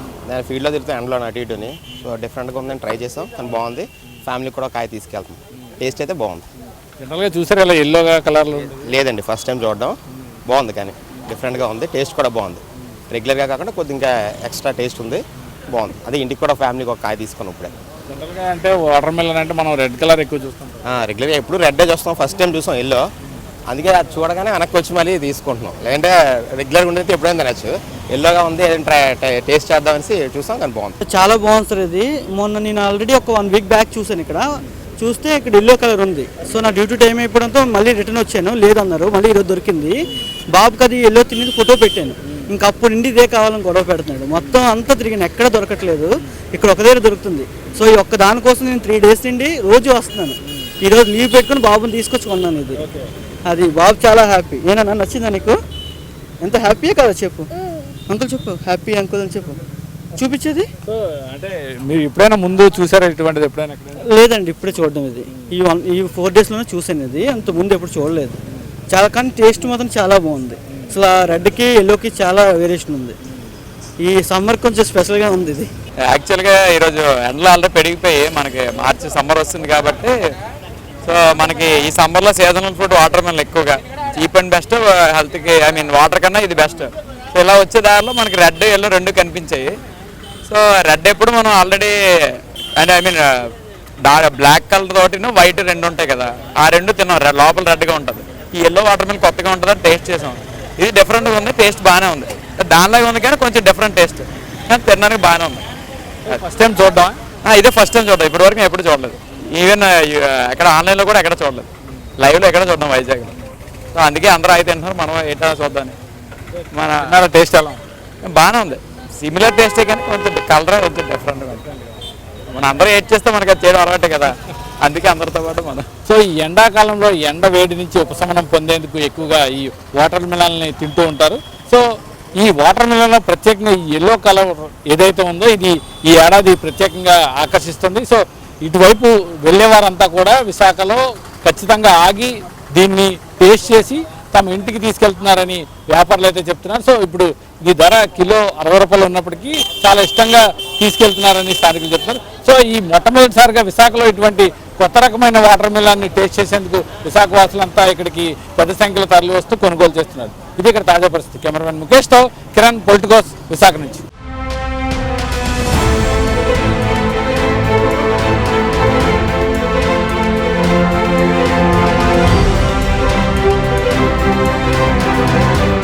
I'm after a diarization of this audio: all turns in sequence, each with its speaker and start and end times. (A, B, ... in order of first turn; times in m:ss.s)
0:00.2-0:06.4 A
0:07.0-0:08.8 B
0:08.8-0:17.7 A
0:18.1-0:20.8 B
0:20.9-0:23.0 A
0:23.7-0:31.0 A
0:31.0-0:34.4 C
0:35.0-0:39.9 C
0:40.5-0:52.8 C
0:53.4-0:55.6 C
0:56.4-0:57.5 C
0:58.1-0:59.6 C
1:00.2-1:00.7 C
1:00.8-1:04.0 B
1:04.1-1:08.4 C
1:08.9-1:13.2 C
1:14.0-1:15.7 C
1:16.1-1:20.1 D
1:21.0-1:29.7 D
1:30.4-1:33.5 D
1:34.0-1:45.6 D
1:46.2-1:47.2 B
1:47.4-1:51.7 D
1:52.2-1:53.3 D
1:53.9-1:56.0 D
1:56.7-1:57.0 D
1:57.0-1:57.8 B
1:58.2-2:01.7 D
2:02.5-2:05.9 D
2:06.0-2:11.8 B
2:12.4-2:44.0 B